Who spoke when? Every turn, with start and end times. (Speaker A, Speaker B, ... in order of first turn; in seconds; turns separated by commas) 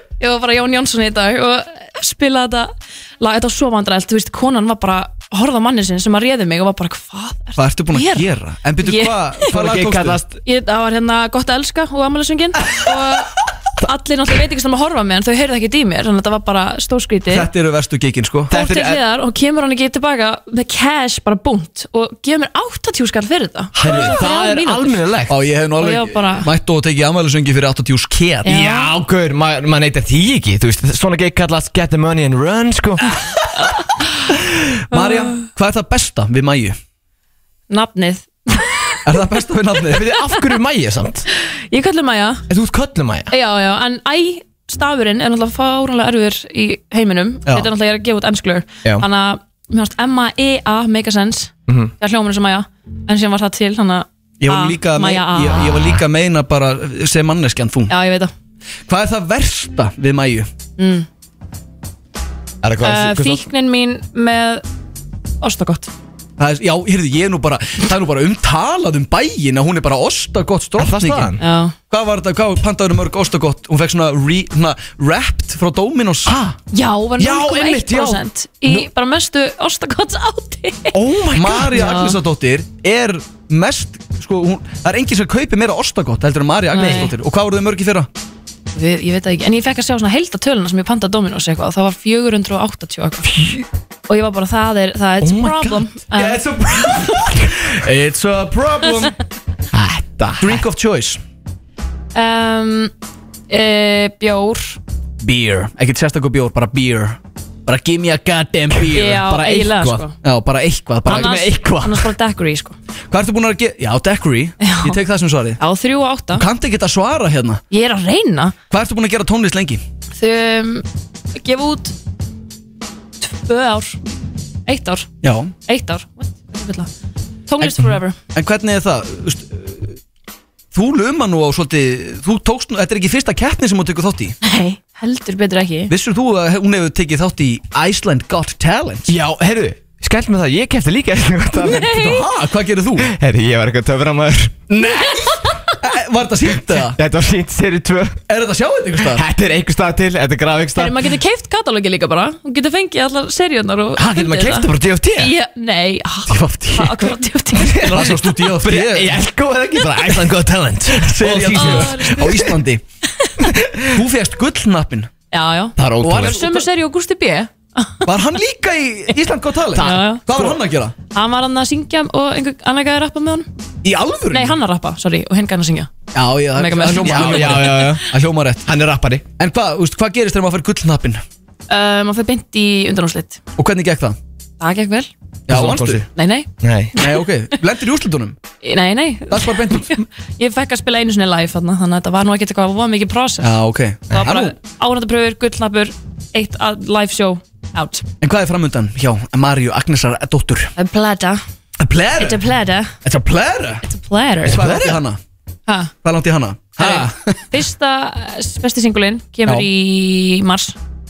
Speaker A: 0.2-9.5, Speaker B: 7.5-10.2, Speaker C: 9.5-10.4, Speaker A: 10.4-17.5, Speaker B: 17.3-18.5, Speaker C: 18.5-19.0, Speaker A: 18.5-25.1, Speaker B: 23.8-24.2, Speaker C: 23.8-25.3, Speaker B: 25.3-28.6, Speaker A: 25.8-26.5, Speaker A: 28.4-28.9, Speaker C: 28.4-33.1, Speaker B: 34.9-36.8, Speaker A: 34.9-35.4, Speaker A: 37.7-39.0, Speaker B: 39.0-40.1, Speaker C: 39.9-41.2, Speaker A: 41.7-42.4, Speaker C: 42.5-43.3, Speaker A: 43.3-56.0, Speaker B: 47.5-47.7, Speaker C: 51.7-51.9, Speaker B: 54.4-58.0, Speaker A: 57.9-58.3, Speaker B: 58.9-60.5, Speaker A: 60.8-61.1, Speaker C: 62.6-63.5, Speaker A: 62.8-64.6, Speaker A: 65.4-65.9, Speaker B: 66.4-71.3, Speaker C: 70.8-71.4, Speaker A: 71.4-71.7, Speaker B: 71.9-76.3, Speaker C: 76.3-76.6, Speaker A: 76.7-81.0, Speaker C: 77.2-78.9, Speaker C: 80.9-81.8, Speaker B: 81.3-88.1, Speaker A: 81.7-82.2, Speaker A: 86.7-87.1, Speaker C: 86.8-87.1, Speaker A: 88.7-93.3, Speaker C: 93.2-93.6, Speaker A: 94.1-96.4, Speaker C: 95.2-95.8, Speaker B: 96.1-99.2, Speaker C: 99.7-100.6, Speaker B: 100.4-101.2, Speaker A: 102.1-102.9, Speaker A: 103.5-104.8, Speaker B: 105.2-112.0, Speaker A: 108.9-110.1, Speaker A: 111.0-112.8, Speaker B: 113.1-115.6, Speaker A: 114.6-115.0, Speaker A: 115.6-116.5, Speaker B: 116.3-117.6, Speaker A: 117.7-118.5, Speaker B: 118.7-119.8, Speaker A: 120.1-120.8, Speaker A: 121.4-121.9, Speaker A: 123.2-124.0, Speaker A: 124.7-126.9, Speaker B: 125.2-125.5, Speaker A: 127.5-128.2, Speaker B: 127.6-130.0, Speaker B: 130.7-134.3, Speaker A: 134.4-135.9, Speaker B: 135.9-139.1, Speaker C: 139.1-142.0, Speaker A: 141.6-142.3, Speaker B: 141.6-143.1, Speaker C: 143.1-144.7, Speaker B: 144.7-147.0, Speaker C: 146.8-148.2, Speaker B: 148.3-149.2, Speaker C: 149.0-151.1, Speaker A: 150.7-157.8, Speaker C: 153.9-155.3, Speaker B: 156.3-157.1, Speaker C: 157.6-162.5, Speaker B: 157.8-159.2, Speaker B: 161.0-162.8, Speaker A: 161.5-162.5, Speaker C: 163.4-163.9, Speaker B: 163.9-165.1, Speaker A: 165.3-168.1, Speaker C: 165.8-166.4, Speaker B: 166.0-166.6, Speaker B: 168.0-170.9, Speaker C: 169.7-170.6, Speaker A: 169.8-170.2, Speaker A: 171.1-173.5, Speaker B: 173.8-174.6, Speaker A: 174.3-175.9, Speaker B: 176.1-178.7, Speaker A: 176.5-177.9, Speaker C: 177.0-178.0, Speaker C: 178.7-179.2, Speaker B: 179.4-181.2, Speaker A: 181.7-183.4, Speaker B: 183.6-184.2, Speaker A: 184.6-185.1, Speaker B: 185.5-186.1, Speaker C: 185.5-186.1, Speaker A: 186.1-187.2, Speaker C: 186.6-186.9, Speaker B: 187.0-188.4, Speaker A: 188.6-193.6, Speaker B: 189.3-190.0, Speaker B: 193.4-194.6, Speaker A: 194.1-198.0, Speaker B: 198.2-200.7, Speaker A: 200.8-201.4, Speaker B: 201.8-202.4, Speaker A: 202.2-202.9, Speaker B: 203.0-203.8, Speaker A: 203.8-204.6, Speaker C: 204.4-204.9, Speaker B: 204.4-205.2, Speaker A: 205.7-205.9, Speaker B: 206.0-207.5, Speaker A: 206.8-210.8